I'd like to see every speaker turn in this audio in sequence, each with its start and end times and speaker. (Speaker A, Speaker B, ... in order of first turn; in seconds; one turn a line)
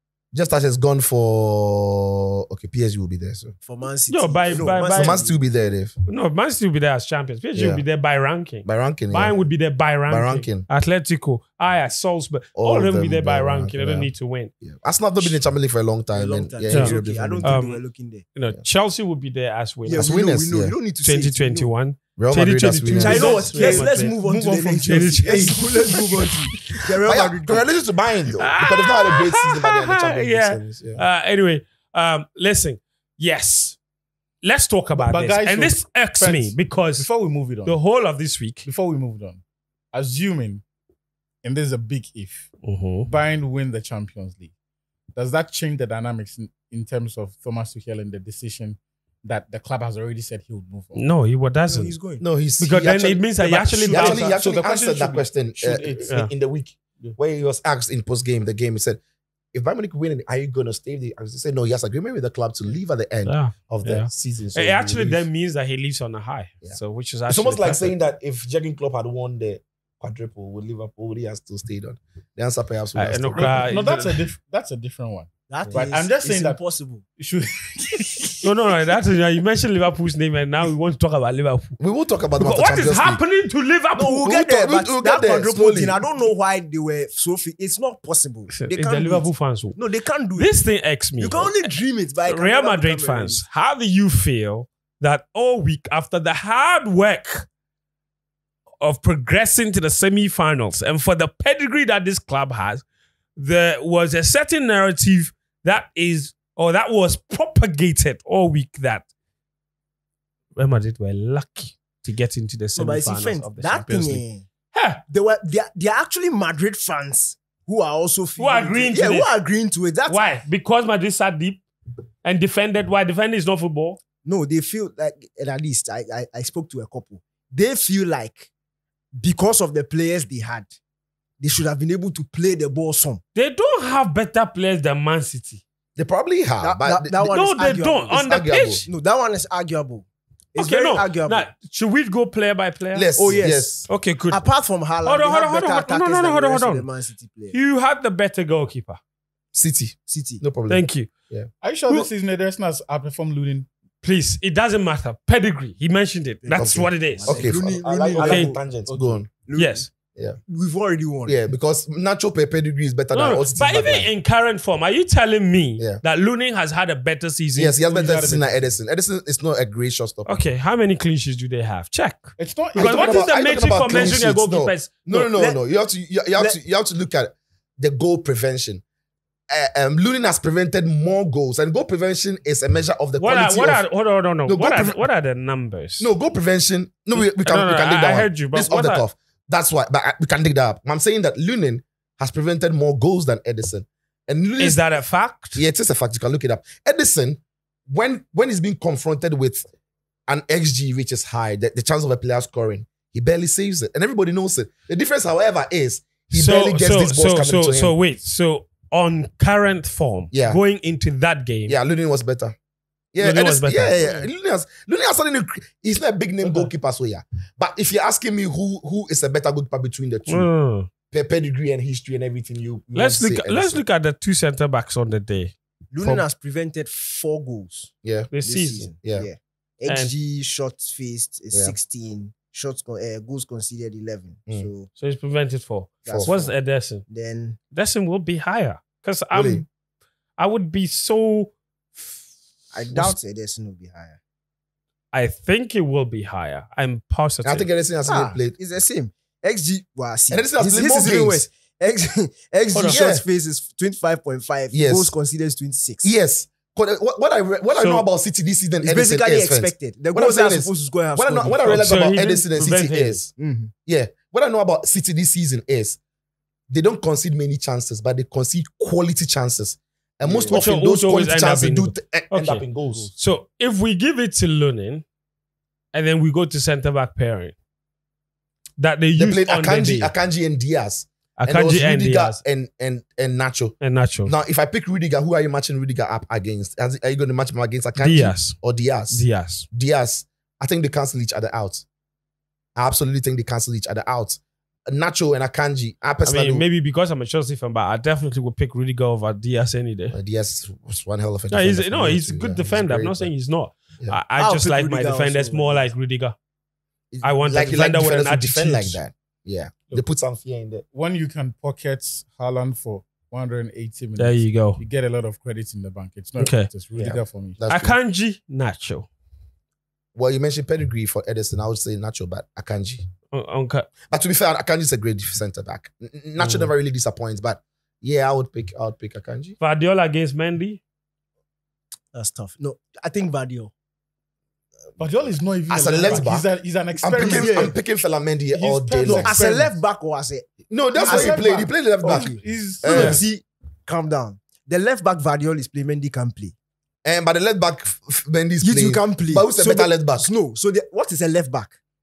Speaker A: 0.3-3.5
Speaker B: 3.6-5.4
Speaker C: 4.1-5.2
Speaker A: 4.7-6.0
Speaker C: 6.1-14.5
Speaker A: 7.5-7.8
Speaker A: 8.6-9.3
Speaker A: 10.1-10.7
Speaker A: 12.5-14.1
Speaker A: 14.6-17.6
Speaker B: 16.1-18.2
Speaker C: 16.7-17.8
Speaker C: 18.3-20.1
Speaker B: 19.9-21.7
Speaker A: 19.9-20.7
Speaker C: 21.0-24.2
Speaker A: 22.2-23.6
Speaker B: 22.9-27.7
Speaker D: 23.5-26.0
Speaker C: 24.9-26.0
Speaker A: 27.0-31.0
Speaker C: 28.4-33.8
Speaker C: 34.4-37.1
Speaker D: 35.0-37.8
Speaker C: 37.6-38.7
Speaker D: 38.6-39.4
Speaker D: 39.9-40.6
Speaker D: 41.4-42.5
Speaker C: 42.6-43.1
Speaker D: 43.0-44.5
Speaker D: 45.1-51.0
Speaker C: 50.9-51.9
Speaker B: 51.7-52.2
Speaker A: 52.2-53.2
Speaker C: 52.6-54.4
Speaker D: 53.4-56.1
Speaker A: 53.9-59.0
Speaker A: 59.5-65.2
Speaker C: 63.2-67.9
Speaker A: 67.3-73.7
Speaker C: 72.9-74.2
Speaker D: 73.3-76.6
Speaker B: 75.5-77.0
Speaker D: 77.2-78.4
Speaker C: 78.4-81.8
Speaker A: 81.8-83.2
Speaker C: 82.3-84.2
Speaker A: 84.0-86.0
Speaker B: 84.0-90.5
Speaker C: 88.5-89.8
Speaker C: 90.3-97.5
Speaker B: 91.2-93.4
Speaker C: 98.8-102.8
Speaker C: 103.3-109.0
Speaker C: 110.5-115.0
Speaker B: 112.8-114.5
Speaker B: 115.1-120.2
Speaker C: 118.4-119.3
Speaker C: 120.1-121.6
Speaker C: 122.2-124.0
Speaker B: 124.2-128.5
Speaker B: 129.1-130.7
Speaker B: 131.4-133.2
Speaker C: 133.3-135.6
Speaker A: 135.9-137.2
Speaker B: 136.6-141.4
Speaker C: 137.2-138.9
Speaker A: 138.1-138.8
Speaker C: 140.6-144.4
Speaker A: 142.9-143.8
Speaker B: 143.2-147.5
Speaker C: 145.0-146.9
Speaker C: 147.5-149.0
Speaker A: 149.5-151.5
Speaker B: 150.1-150.4
Speaker C: 150.7-151.1
Speaker D: 151.6-153.7
Speaker C: 154.0-157.6
Speaker B: 156.4-158.6
Speaker A: 156.6-159.3
Speaker C: 158.2-158.6
Speaker D: 158.9-159.2
Speaker B: 159.4-159.9
Speaker C: 159.5-159.9
Speaker B: 160.5-161.4
Speaker A: 161.2-164.1
Speaker C: 163.1-167.8
Speaker A: 167.5-170.3
Speaker D: 167.9-168.7
Speaker C: 170.2-175.1
Speaker D: 172.4-173.3
Speaker A: 172.7-178.8
Speaker B: 175.1-175.6
Speaker A: 179.5-183.8
Speaker C: 183.2-186.1
Speaker A: 184.5-185.1
Speaker A: 186.0-194.8
Speaker C: 187.1-189.0
Speaker C: 194.6-195.6
Speaker A: 195.6-199.6
Speaker A: 200.3-207.9
Speaker C: 206.3-211.8
Speaker A: 210.3-210.6
Speaker A: 211.7-212.5
Speaker A: 213.1-220.5
Speaker C: 213.2-214.0
Speaker C: 216.4-216.7
Speaker C: 220.3-220.9
Speaker A: 221.1-223.8
Speaker C: 222.9-226.2
Speaker B: 225.9-234.9
Speaker A: 228.0-228.3
Speaker C: 228.3-228.9
Speaker A: 228.9-229.3
Speaker C: 229.8-230.1
Speaker C: 234.9-237.0
Speaker B: 236.1-236.5
Speaker A: 236.1-236.4
Speaker B: 237.1-237.6
Speaker C: 237.7-239.7
Speaker A: 239.3-239.6
Speaker C: 240.4-242.1
Speaker B: 242.7-244.2
Speaker C: 245.1-247.7
Speaker A: 247.4-248.6
Speaker B: 248.1-256.1
Speaker A: 250.3-251.4
Speaker C: 252.7-253.0
Speaker A: 252.9-253.2
Speaker A: 254.7-255.1
Speaker A: 256.0-263.3
Speaker C: 257.7-258.0
Speaker B: 258.8-261.8
Speaker C: 261.6-263.2
Speaker B: 263.4-263.7
Speaker A: 263.9-266.0
Speaker A: 266.7-273.1
Speaker B: 270.2-270.6
Speaker C: 270.5-275.0
Speaker C: 275.9-277.5
Speaker C: 278.8-280.1
Speaker A: 279.1-283.7
Speaker C: 281.4-282.4
Speaker C: 283.8-284.3
Speaker A: 284.2-291.8
Speaker C: 288.0-288.6
Speaker C: 289.1-289.6
Speaker A: 292.8-296.6
Speaker C: 296.2-300.1
Speaker A: 300.1-303.3
Speaker C: 301.5-306.4
Speaker B: 304.4-305.9
Speaker A: 307.1-310.8
Speaker C: 307.2-309.0
Speaker D: 310.9-317.6
Speaker C: 314.2-314.8
Speaker C: 316.4-316.7
Speaker A: 317.0-317.9
Speaker C: 317.7-319.1
Speaker A: 320.1-323.0
Speaker C: 323.3-323.9
Speaker A: 324.1-329.6
Speaker C: 326.4-326.7
Speaker C: 329.6-330.8
Speaker B: 332.1-333.7
Speaker D: 335.0-337.7
Speaker A: 335.7-336.4
Speaker A: 337.0-339.3
Speaker B: 337.2-337.7
Speaker D: 338.5-339.8
Speaker B: 339.0-340.5
Speaker A: 340.7-343.2
Speaker D: 340.9-343.2
Speaker B: 341.0-346.5
Speaker A: 347.0-350.3
Speaker B: 348.6-351.8